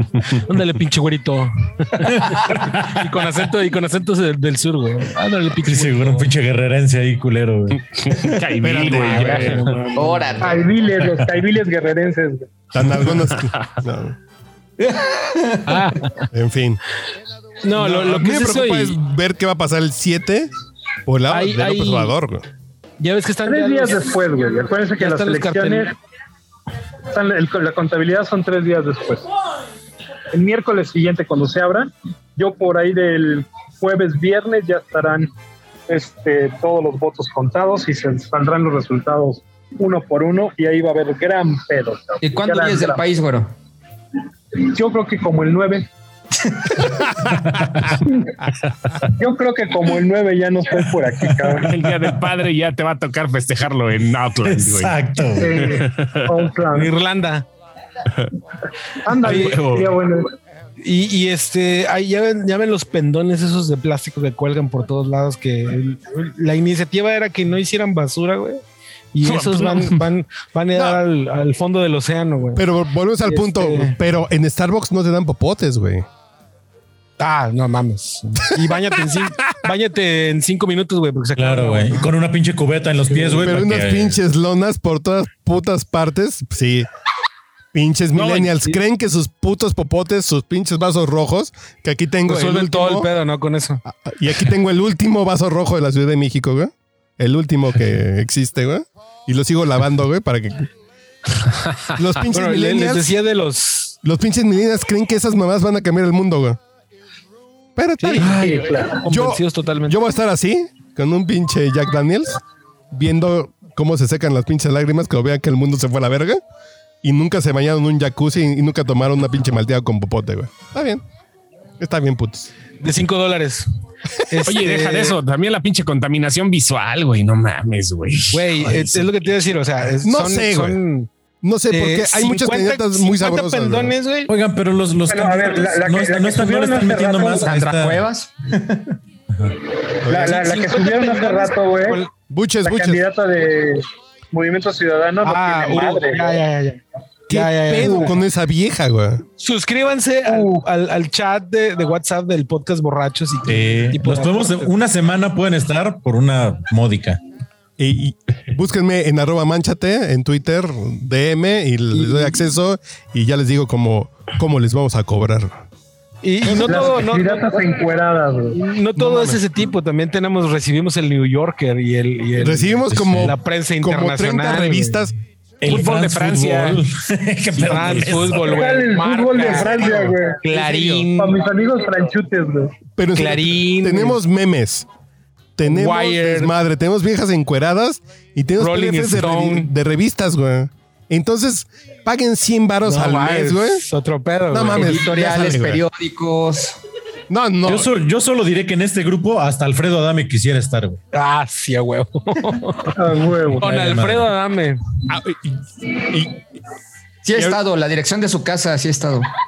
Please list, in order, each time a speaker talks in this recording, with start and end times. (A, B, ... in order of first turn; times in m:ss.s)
0:00.3-0:06.3 A
0:02.0-0:03.0 B
0:05.6-0:08.3 B
0:07.9-0:09.7 C
0:08.6-0:09.7 D
0:08.9-0:10.5 A
0:09.9-0:10.6 E
0:10.4-0:12.5 F
0:12.7-0:14.2 D
0:14.8-0:16.0 E
0:15.7-0:16.3 A
0:16.3-0:16.8 D
0:17.6-0:19.0 A
0:17.7-0:20.5 D
0:21.0-0:22.4 D
0:21.3-0:22.2 A
0:23.0-0:24.1 A
0:23.4-0:25.9 F
0:25.0-0:25.9 A
0:27.1-0:29.2 F
0:30.3-0:35.3 F
0:35.9-0:43.0 F
0:42.2-0:43.5 E
0:44.6-0:45.9 F
0:47.2-0:47.9 B
0:48.0-0:48.3 F
0:49.1-0:51.8 F
0:51.5-0:55.0 C
0:54.4-0:55.8 B
0:55.4-0:56.9 F
0:55.6-0:56.4 C
0:56.7-0:57.4 A
0:59.0-1:00.3 F
0:59.2-0:59.9 C
0:59.3-0:59.6 A
1:00.8-1:08.6 A
1:09.1-1:12.6 A
1:09.2-1:10.0 C
1:10.7-1:11.0 D
1:12.6-1:16.1 D
1:13.2-1:14.0 A
1:17.2-1:22.1 A
1:21.4-1:24.2 B
1:23.1-1:23.5 A
1:23.4-1:26.9 D
1:27.7-1:33.1 D
1:28.2-1:28.8 A
1:32.2-1:33.8 A
1:33.8-1:40.7 D
1:41.9-1:43.1 D
1:42.3-1:44.0 A
1:44.0-1:46.6 D
1:47.8-1:48.4 D
1:48.0-1:50.0 A
1:48.3-1:49.0 F
1:49.1-1:52.4 D
1:52.9-1:56.4 D
1:57.0-2:01.0 D
2:01.8-2:02.5 D
2:02.8-2:03.7 A
2:04.2-2:05.2 A
2:04.4-2:09.1 C
2:08.3-2:11.1 A
2:10.0-2:10.8 D
2:11.4-2:14.0 D
2:11.7-2:14.3 A
2:14.3-2:18.0 B
2:15.1-2:17.5 F
2:17.4-2:18.9 E
2:19.8-2:22.0 F
2:20.0-2:20.3 D
2:20.1-2:22.1 A
2:22.3-2:23.0 D
2:22.6-2:26.4 F
2:25.2-2:28.2 A
2:27.3-2:29.2 D
2:29.4-2:34.7 A
2:30.3-2:30.6 F
2:33.4-2:37.2 B
2:37.8-2:45.6 D
2:41.9-2:42.4 A
2:46.2-2:47.6 A
2:46.6-2:46.9 D
2:46.6-2:48.6 F
2:48.5-2:55.1 A
2:48.9-2:49.4 D
2:52.4-2:55.1 D
2:52.9-2:53.3 B
2:55.6-2:58.6 B
2:55.6-2:56.8 C
2:57.5-3:01.4 A
2:58.4-3:00.4 F
3:01.1-3:02.7 F
3:03.0-3:04.9 D
3:03.1-3:04.2 A
3:05.6-3:13.8 D
3:05.6-3:06.5 A
3:08.6-3:09.7 A
3:12.8-3:15.0 A
3:14.5-3:15.8 D
3:14.7-3:16.8 E
3:17.3-3:17.9 D
3:17.6-3:21.0 B
3:21.1-3:23.0 A
3:22.9-3:23.6 F
3:23.6-3:24.8 A
3:23.6-3:24.3 B
3:25.1-3:26.4 D
3:27.2-3:29.3 E
3:27.3-3:27.6 D